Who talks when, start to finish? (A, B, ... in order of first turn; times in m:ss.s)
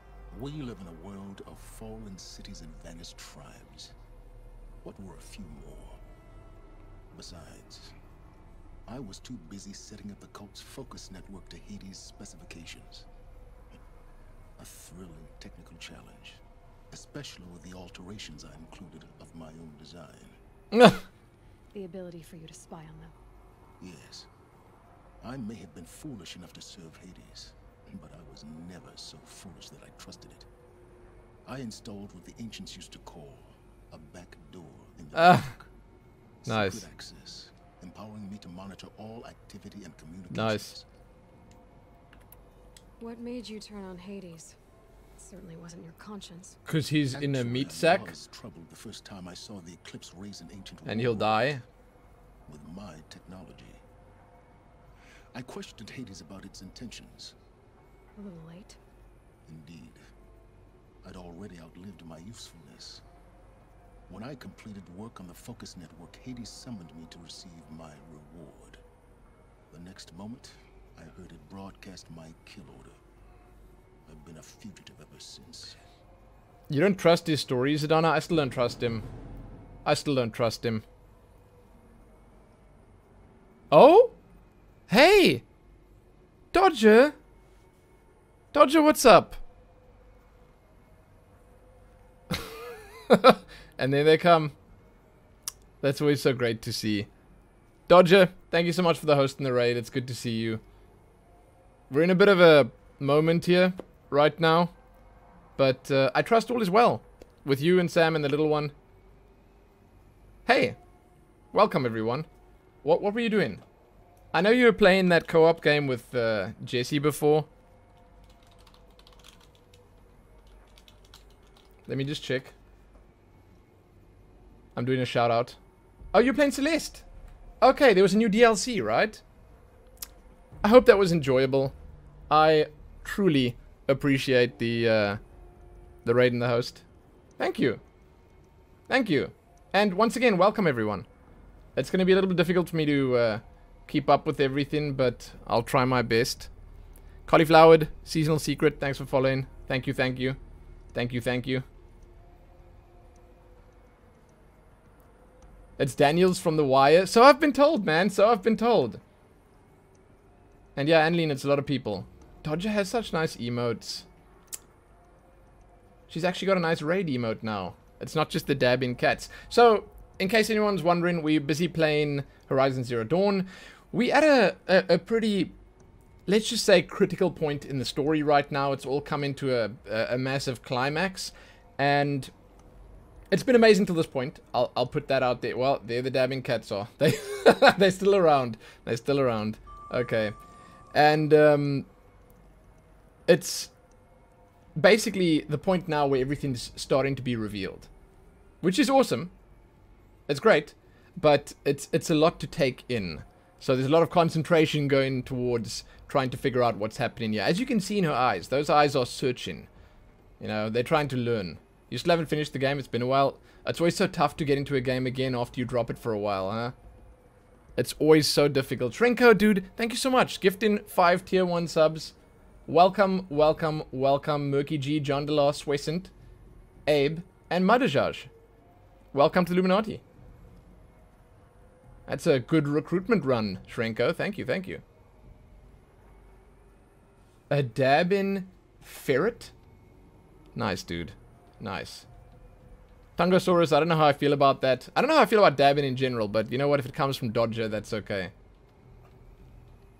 0:00.3-0:04.0 A
0:04.8-0:06.0 A
0:07.1-0:08.0 A
0:08.9-0:13.1 A
0:14.6-0:20.4 A
0:20.7-0:21.0 B
0:21.7-0:23.2 C
0:23.8-0:24.3 A
0:25.2-0:30.5 A
0:31.5-0:35.7 A
0:35.1-0:35.5 B
0:36.4-0:40.9 A
0:36.5-0:36.8 B
0:40.3-0:40.7 B
0:43.0-0:44.6 C
0:45.2-0:46.6 C
0:46.7-0:48.1 B
0:47.1-0:51.5 A
0:50.9-0:51.6 B
0:52.5-0:53.8 A
0:55.3-0:57.4 A
0:58.2-0:58.8 C
0:59.5-1:00.1 A
1:01.0-1:03.0 A
1:04.1-1:08.8 A
1:09.7-1:13.0 A
1:14.1-1:15.8 A
1:16.7-1:19.1 B
1:19.8-1:20.8 B
1:23.7-1:24.2 B
1:24.9-1:25.4 B
1:26.5-1:27.2 B
1:28.5-1:29.4 B
1:32.3-1:34.5 B
1:35.8-1:37.1 B
1:37.9-1:40.6 B
1:41.9-1:44.7 B
1:45.6-1:48.7 B
1:50.5-1:50.8 B
1:51.5-1:52.3 B
1:52.8-1:53.6 B
1:54.3-1:57.5 B
2:01.9-2:02.5 B
2:04.8-2:05.6 B
2:06.1-2:07.0 B
2:07.6-2:09.2 B
2:10.6-2:11.8 B
2:12.3-2:15.2 B
2:16.0-2:16.8 B
2:17.4-2:17.8 B
2:18.9-2:21.1 B
2:21.8-2:26.5 B
2:27.3-2:30.4 B
2:30.9-2:31.6 B
2:35.8-2:39.0 B
2:40.8-2:44.1 B
2:46.1-2:55.5 B
2:56.3-3:02.3 B
3:03.3-3:10.4 B
3:10.9-3:11.9 B
3:13.3-3:13.7 B
3:14.8-3:17.9 B
3:18.6-3:19.3 B
3:20.3-3:29.7 B
3:30.4-3:36.7 B
3:37.8-3:42.1 B
3:42.7-3:46.1 B
3:46.9-3:48.3 B
3:49.1-3:50.0 B
3:52.1-3:54.8 B
3:57.5-3:59.5 B
4:00.6-4:02.1 B
4:03.2-4:08.3 B